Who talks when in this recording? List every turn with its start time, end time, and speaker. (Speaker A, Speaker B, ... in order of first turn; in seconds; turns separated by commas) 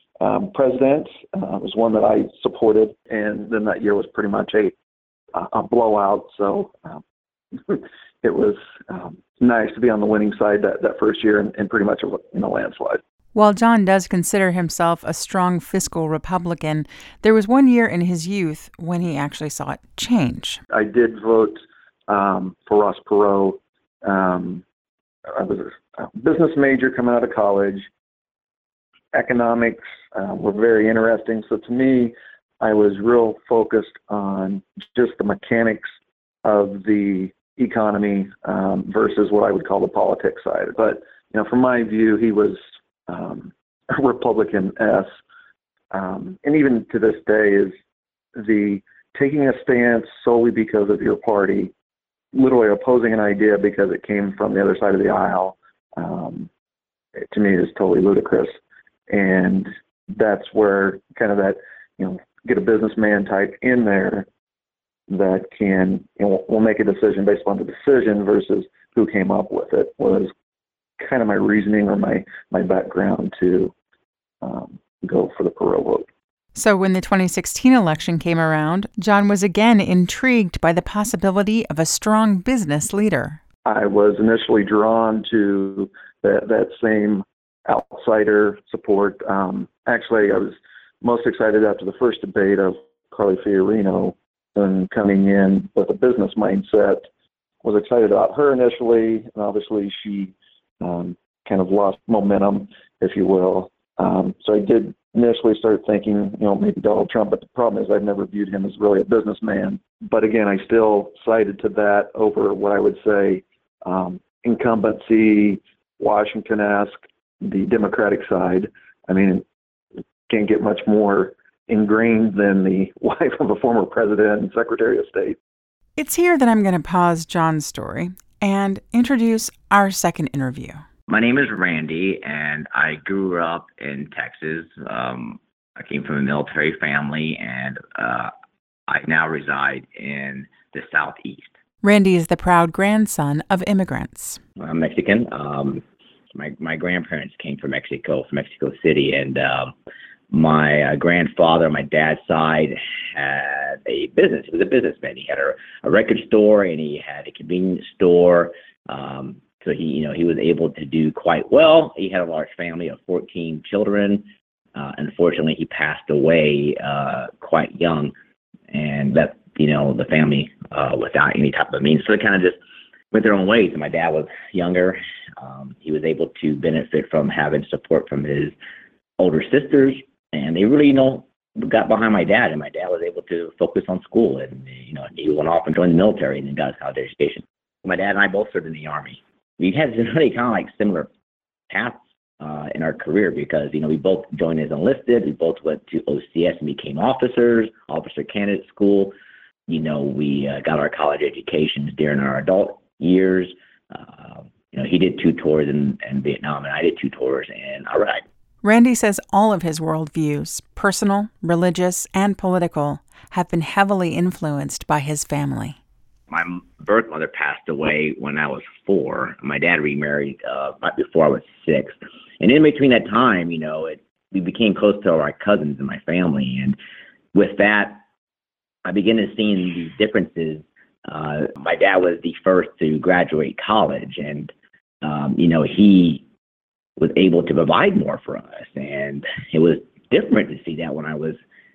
Speaker A: 0.2-4.7, Speaker A: 5.3-7.0, Speaker A: 7.7-13.0, Speaker B: 13.3-20.6, Speaker A: 20.7-24.6, Speaker A: 25.3-27.9, Speaker A: 29.1-45.1, Speaker A: 45.9-47.7, Speaker A: 48.4-51.7, Speaker A: 52.3-56.5, Speaker A: 57.3-58.5, Speaker A: 59.1-64.3, Speaker A: 65.1-70.3, Speaker A: 71.0-73.7, Speaker A: 74.4-76.1, Speaker B: 76.5-83.4, Speaker A: 83.7-97.0, Speaker A: 97.6-119.4, Speaker A: 120.3-125.4, Speaker B: 126.0-130.8, Speaker C: 131.1-138.3, Speaker C: 138.9-141.5, Speaker B: 141.8-144.4, Speaker C: 144.6-145.8, Speaker C: 146.3-149.7, Speaker C: 150.3-168.1, Speaker C: 168.7-172.6, Speaker C: 173.1-178.6, Speaker C: 179.2-191.1, Speaker C: 191.7-199.1, Speaker C: 199.7-208.2, Speaker B: 208.6-215.8, Speaker C: 216.3-226.8, Speaker C: 227.3-228.0, Speaker C: 228.8-234.5, Speaker C: 235.0-236.2, Speaker C: 237.0-241.4